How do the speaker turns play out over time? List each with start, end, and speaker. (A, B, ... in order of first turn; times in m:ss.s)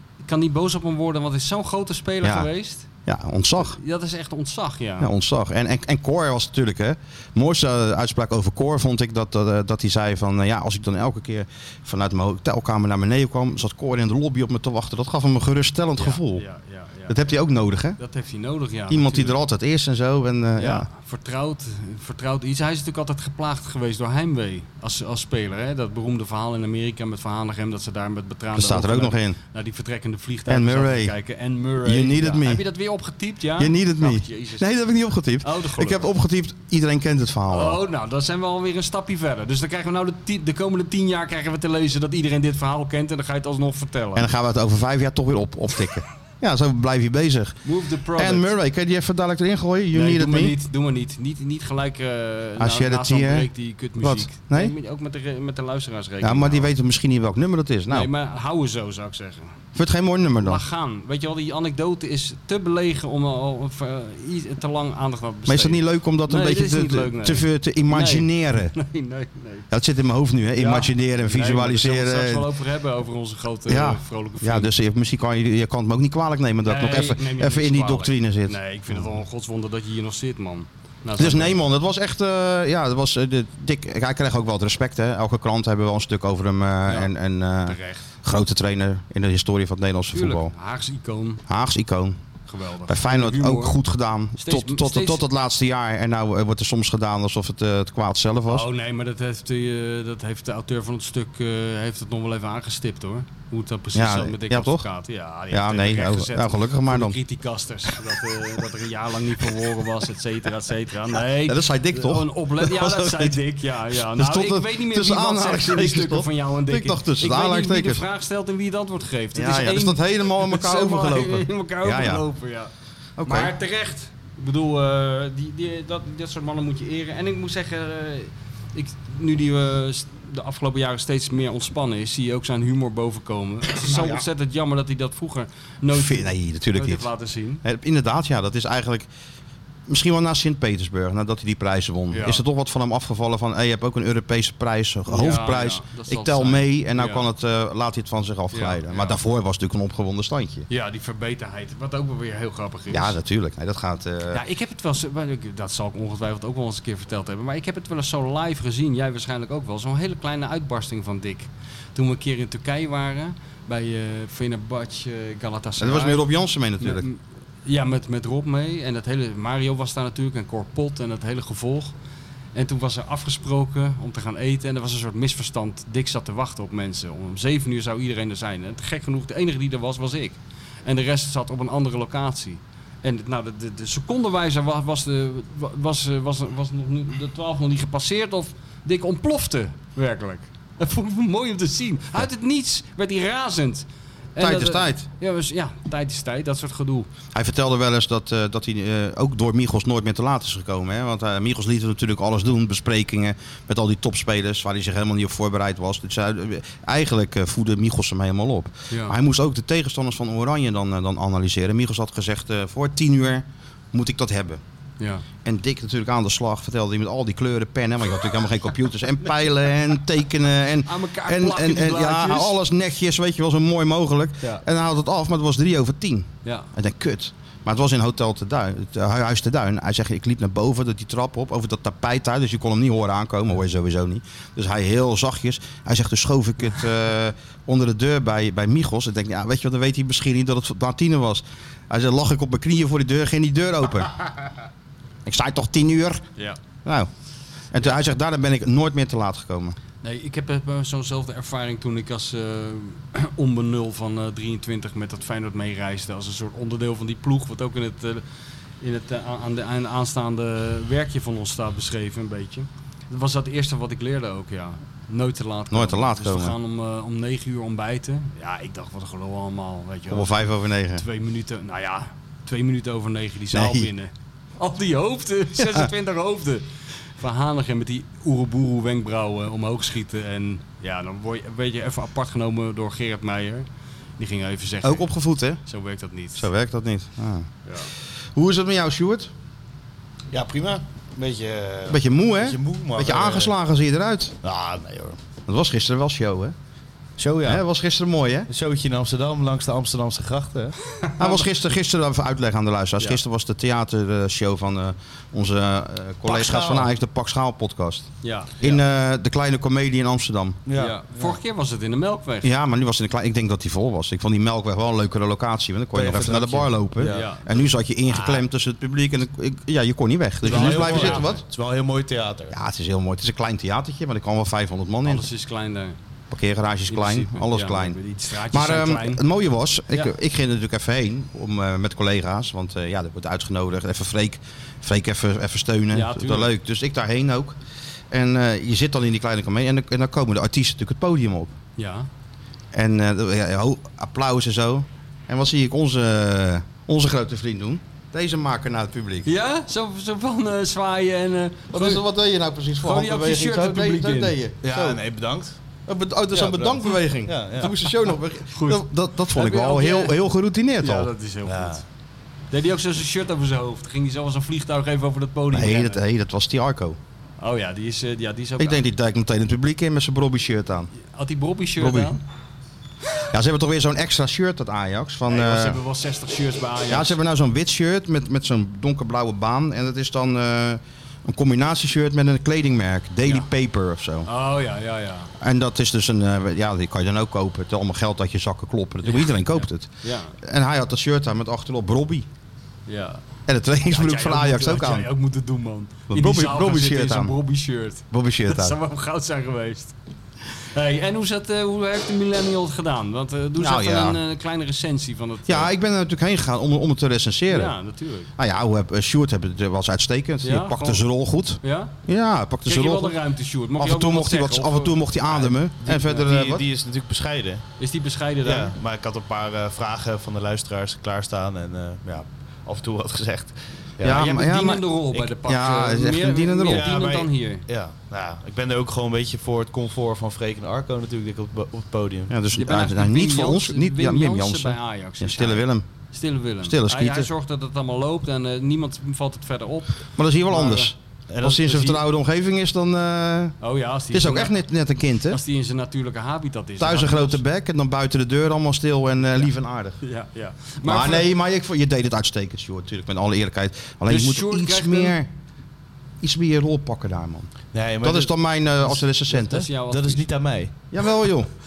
0:00.2-0:02.9 A
0:02.2-0:02.5 B
0:03.1-0:03.8 B
0:03.6-0:05.1 A
0:05.0-0:16.4 B
0:16.0-0:17.2 A
0:17.1-0:18.0 B
0:18.0-0:19.4 A
0:18.9-0:20.9 B
0:20.6-0:34.7 A
0:28.5-0:29.4 B
0:30.5-0:31.1 B
0:31.8-0:32.6 B
0:33.6-0:37.8 B
0:35.4-0:36.1 A
0:37.5-0:44.3 A
0:44.2-0:47.6 B
0:47.6-0:48.5 A
0:48.2-0:50.6 B
0:49.9-0:56.7 A
0:52.6-0:54.7 B
0:56.2-0:58.1 B
0:57.9-0:59.5 A
0:59.8-1:00.6 B
1:00.4-1:09.7 A
1:05.5-1:08.8 B
1:09.7-1:12.5 B
1:10.6-1:14.7 A
1:13.7-1:19.0 B
1:16.6-1:21.6 A
1:21.2-1:30.5 B
1:27.6-1:28.0 A
1:30.1-1:31.4 A
1:31.5-1:32.2 B
1:32.5-1:33.8 A
1:32.9-1:38.7 B
1:34.4-1:35.2 A
1:38.5-2:02.7 A
1:43.9-1:44.9 B
1:45.5-1:47.2 B
1:51.4-1:53.4 B
1:53.9-1:58.0 B
1:59.4-2:02.2 B
2:03.2-2:03.5 B
2:03.2-2:17.6 A
2:13.7-2:14.2 B
2:15.9-2:17.1 B
2:17.6-2:19.1 B
2:19.9-2:30.7 B
2:22.1-2:22.4 A
2:25.1-2:27.3 A
2:28.5-2:29.2 A
2:30.7-2:33.2 A
2:32.9-2:34.4 B
2:34.3-2:46.2 A
2:45.8-2:47.1 B
2:46.8-2:51.9 A
2:52.6-3:17.1 A
3:14.4-3:15.1 B
3:17.3-3:34.6 B
3:28.9-3:29.2 A
3:35.0-3:35.2 A
3:35.4-4:04.2 B
3:40.8-3:42.6 A
3:46.4-3:46.7 A
4:05.2-4:06.2 B
4:06.8-4:07.1 B
4:07.7-4:09.8 B
4:10.0-4:18.2 A
4:18.8-4:36.6 A
4:25.7-4:26.6 B
4:30.1-4:31.0 B
4:33.5-4:33.9 B
4:35.6-4:35.9 B
4:37.2-4:43.7 A
4:44.2-4:45.1 A
4:44.8-4:45.6 B
4:45.6-4:46.5 A
4:46.4-4:47.5 B
4:47.6-4:47.9 A
4:48.4-4:49.3 B
4:50.3-4:53.5 C
4:51.9-4:54.4 B
4:54.4-4:55.2 C
4:55.5-4:56.6 B
4:57.2-4:57.6 C
4:57.4-4:58.5 B
4:58.5-5:00.8 C
5:01.0-5:01.4 A
5:01.2-5:10.6 B
5:06.2-5:06.9 C
5:08.2-5:08.8 A
5:10.7-5:11.4 C
5:10.8-5:12.5 A
5:12.4-5:21.4 B
5:15.9-5:17.3 C
5:17.0-5:17.5 A
5:18.1-5:18.4 C
5:20.4-5:22.6 C
5:20.4-5:21.4 A
5:22.5-5:25.3 B
5:25.0-5:26.0 A
5:26.3-5:28.0 B
5:26.9-5:29.2 A
5:28.5-5:37.6 B
5:35.9-5:36.5 A
5:38.1-5:41.6 B
5:41.8-5:42.1 A
5:42.7-5:49.3 B
5:49.2-5:52.0 A
5:51.7-5:55.0 B
5:52.8-5:54.4 A
5:54.6-5:55.6 C
5:55.9-6:01.1 B
5:56.3-5:57.7 C
5:58.5-6:00.2 A
6:00.8-6:01.8 A
6:01.5-6:01.8 C
6:02.5-6:06.0 A
6:05.5-6:07.0 B
6:07.4-6:08.8 A
6:08.6-6:10.9 B
6:11.1-6:12.2 A
6:11.8-6:12.1 B
6:13.3-6:15.8 B
6:15.3-6:17.2 A
6:16.9-6:24.3 B
6:24.3-6:25.3 A
6:25.4-6:32.3 B
6:29.0-6:30.4 A
6:32.9-6:33.2 A
6:33.5-6:35.1 B
6:33.9-6:39.9 A
6:36.1-6:37.4 B
6:38.1-6:38.8 B
6:40.7-6:45.7 A
6:43.6-6:44.2 B
6:45.5-6:47.8 B
6:47.5-6:48.3 A
6:48.4-6:53.2 B
6:50.4-6:51.0 A
6:51.6-6:51.9 A
6:52.6-6:55.0 A
6:53.8-6:56.6 B
6:55.4-6:57.6 C
6:57.8-6:58.8 A
6:58.4-7:04.2 C
7:04.0-7:04.9 B
7:04.1-7:07.6 A
7:05.4-7:07.0 B
7:06.6-7:12.3 C
7:12.3-7:15.8 B
7:12.5-7:20.9 A
7:16.6-7:17.3 B
7:20.2-7:23.6 B
7:21.3-7:22.0 C
7:23.6-7:24.6 A
7:24.1-7:25.4 B
7:25.3-7:27.4 A
7:26.8-7:30.0 B
7:30.0-7:31.3 A
7:30.8-7:35.3 B
7:34.1-7:35.2 A
7:36.2-7:39.7 B
7:37.7-7:38.3 C
7:38.9-7:40.2 A
7:39.9-7:40.7 C
7:40.9-7:41.5 B